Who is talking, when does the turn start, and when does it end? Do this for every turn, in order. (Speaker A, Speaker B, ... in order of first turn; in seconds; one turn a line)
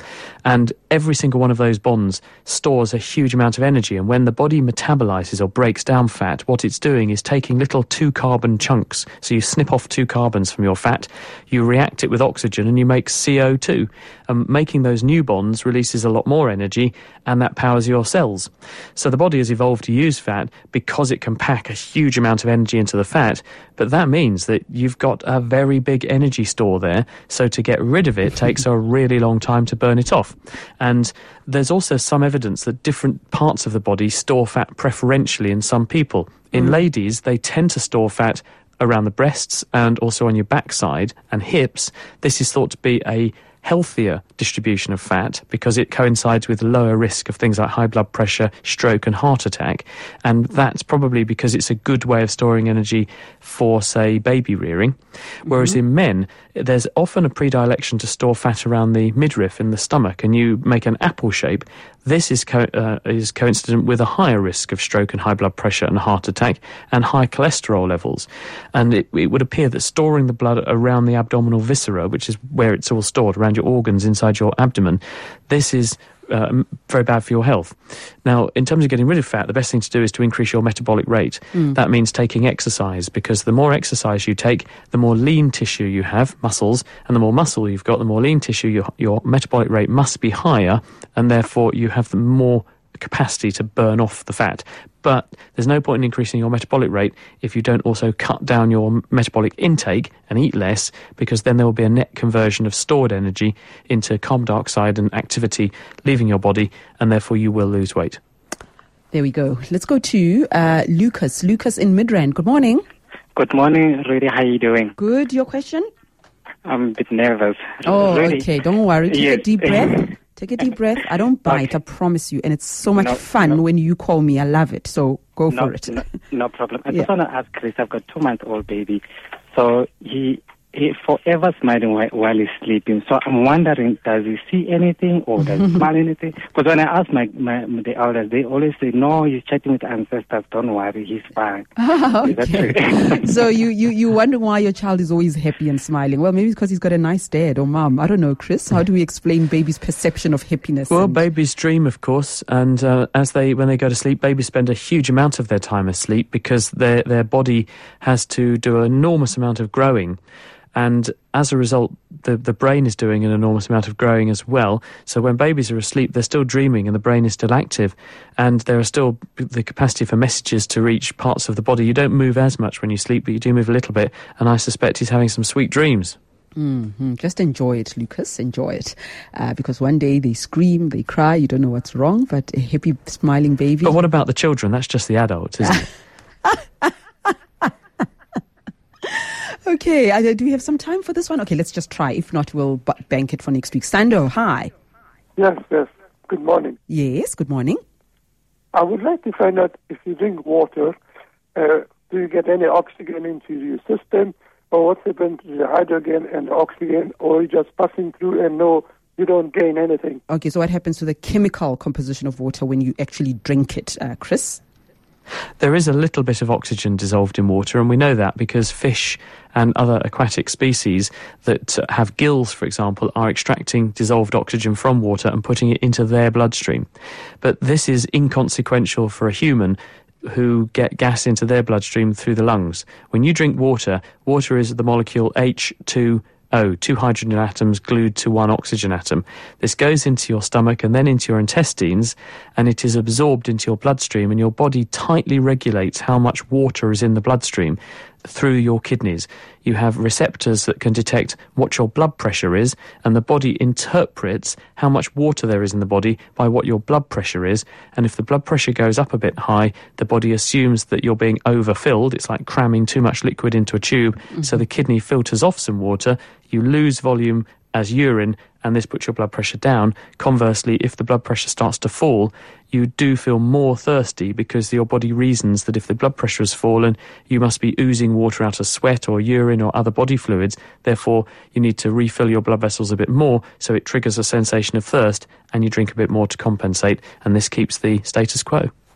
Speaker A: 0.5-108.2
Speaker B: 109.1-112.8
Speaker C: 113.4-114.9
Speaker B: 115.0-115.9
Speaker C: 116.7-118.5
Speaker B: 117.9-126.0
Speaker C: 119.1-120.1
Speaker C: 121.5-121.7
Speaker C: 123.0-123.6
Speaker C: 125.5-143.3
Speaker B: 141.8-151.2
Speaker A: 150.9-160.2
Speaker A: 160.8-176.2
Speaker B: 176.6-183.9
Speaker A: 183.8-185.9
Speaker B: 186.4-187.7
Speaker B: 189.1-194.7
Speaker D: 195.4-196.8
Speaker B: 196.9-197.8
Speaker D: 198.7-201.0
Speaker D: 201.6-210.2
Speaker B: 210.3-214.6
Speaker A: 215.6-226.9
Speaker A: 227.4-288.7